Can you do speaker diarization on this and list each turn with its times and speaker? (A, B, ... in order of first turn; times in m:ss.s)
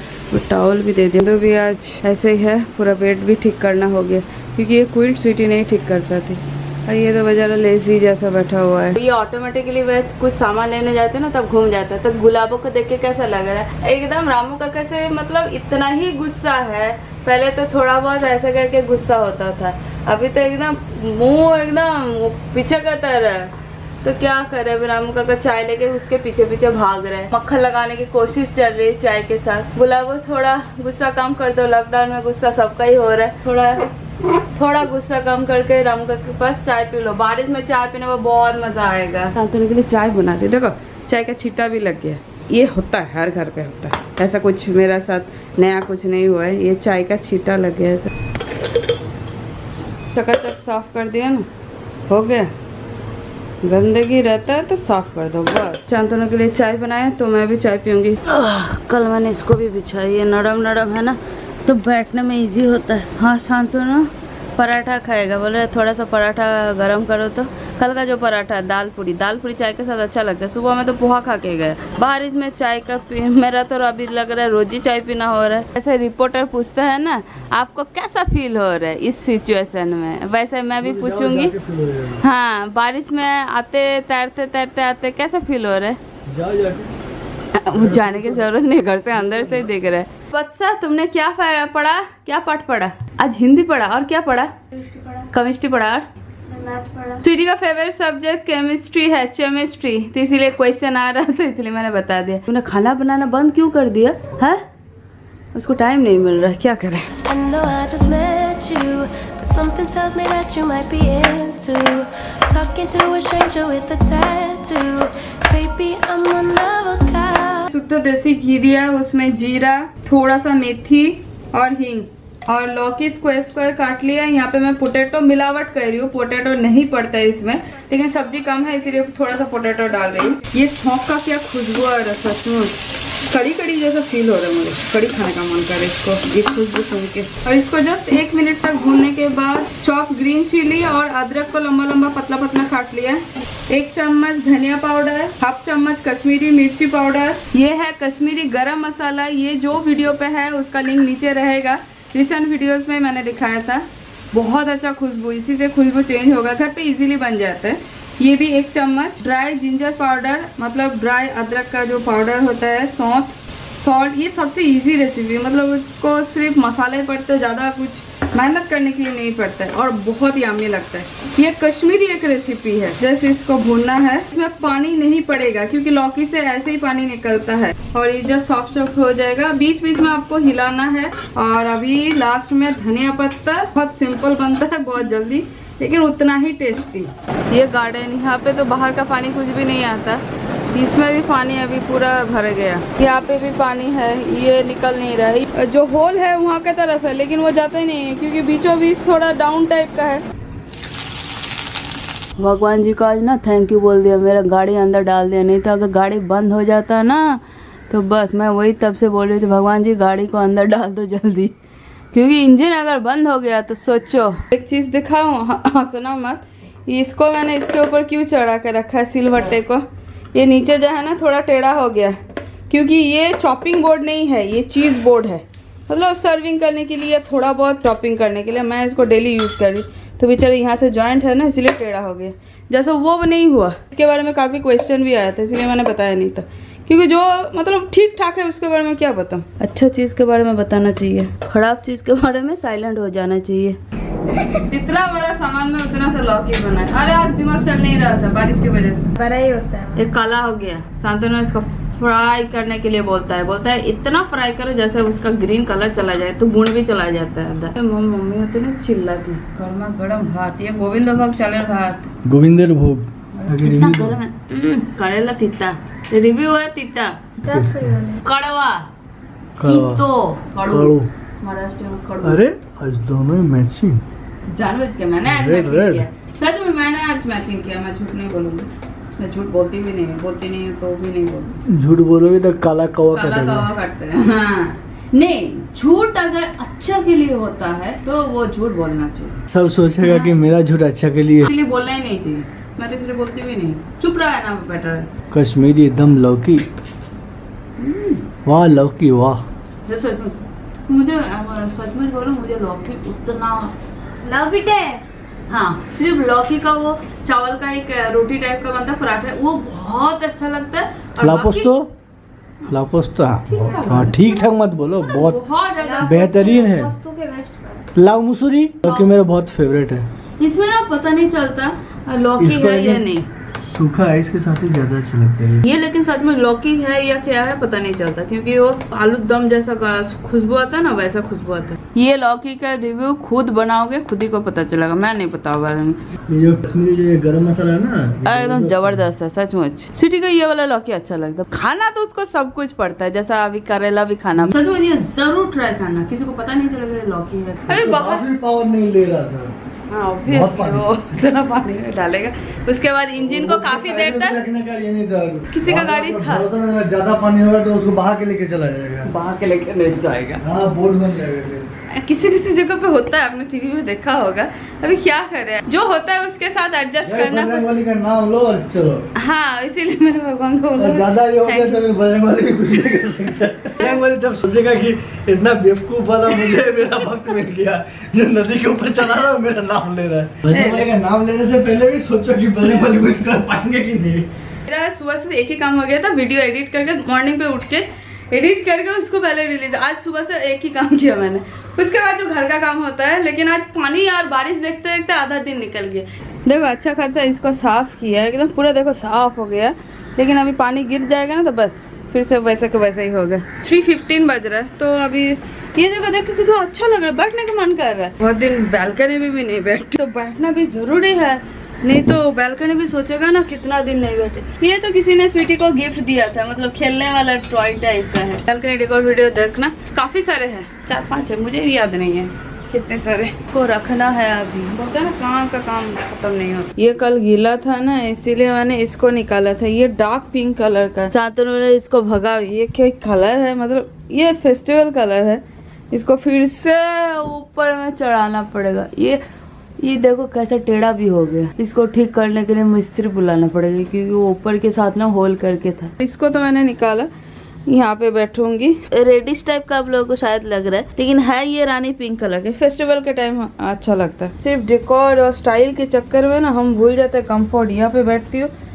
0:00.3-0:33.9 A
0:34.5-0:48.1 A
0:50.1-0:51.5 A
0:52.1-0:52.5 A
0:53.6-1:21.5 A
1:20.8-1:22.2 B
1:22.2-1:26.0 A
1:26.3-1:26.9 B
1:27.6-1:34.5 A
1:27.7-1:28.5 B
1:29.3-1:29.6 B
1:34.7-1:35.2 C
1:35.3-1:36.1 A
1:36.5-1:37.2 C
1:37.2-1:44.6 A
1:45.5-1:47.1 A
1:47.2-1:57.7 D
1:57.7-2:12.8 A
2:13.3-3:20.2 A
3:22.4-3:31.5 A
3:32.1-3:42.2 A
3:42.7-4:03.8 A
4:04.7-4:09.2 A
4:09.2-4:10.1 C
4:10.0-4:22.1 A
4:22.2-4:24.2 B
4:23.4-4:27.3 A
4:27.4-4:28.0 B
4:27.4-4:28.2 C
4:28.2-4:28.9 A
4:29.6-4:30.0 B
4:29.6-4:32.4 A
4:30.7-4:31.1 B
4:32.2-4:34.0 B
4:34.5-4:41.6 A
4:35.3-4:36.1 B
4:41.7-4:43.7 B
4:43.1-4:49.4 A
4:49.5-4:51.5 B
4:50.0-4:50.4 A
4:51.4-4:55.1 A
4:55.3-4:56.7 B
4:57.8-4:58.2 A
4:58.4-4:59.4 B
4:59.9-5:03.7 A
5:04.2-5:05.0 C
5:05.5-5:11.8 A
5:11.2-5:11.9 B
5:12.7-5:15.4 B
5:13.5-5:14.5 A
5:15.0-5:16.4 A
5:15.8-5:17.9 C
5:16.0-5:16.9 B
5:18.0-5:20.1 B
5:18.8-5:19.1 A
5:20.4-5:23.3 A
5:22.4-5:23.1 B
5:23.6-5:25.6 B
5:25.6-5:36.0 A
5:36.3-5:39.0 B
5:38.2-5:48.2 A
5:47.7-5:49.5 B
5:49.9-5:54.4 A
5:50.3-5:50.9 B
5:53.2-5:59.1 B
5:55.5-5:56.4 A
5:59.1-6:00.4 A
6:00.4-6:01.7 B
6:01.9-6:07.7 A
6:07.0-6:09.0 B
6:09.2-6:11.9 A
6:10.8-6:24.3 B
6:20.5-6:20.9 A
6:24.7-7:19.2 A
7:19.8-7:27.1 A
7:27.7-7:38.5 A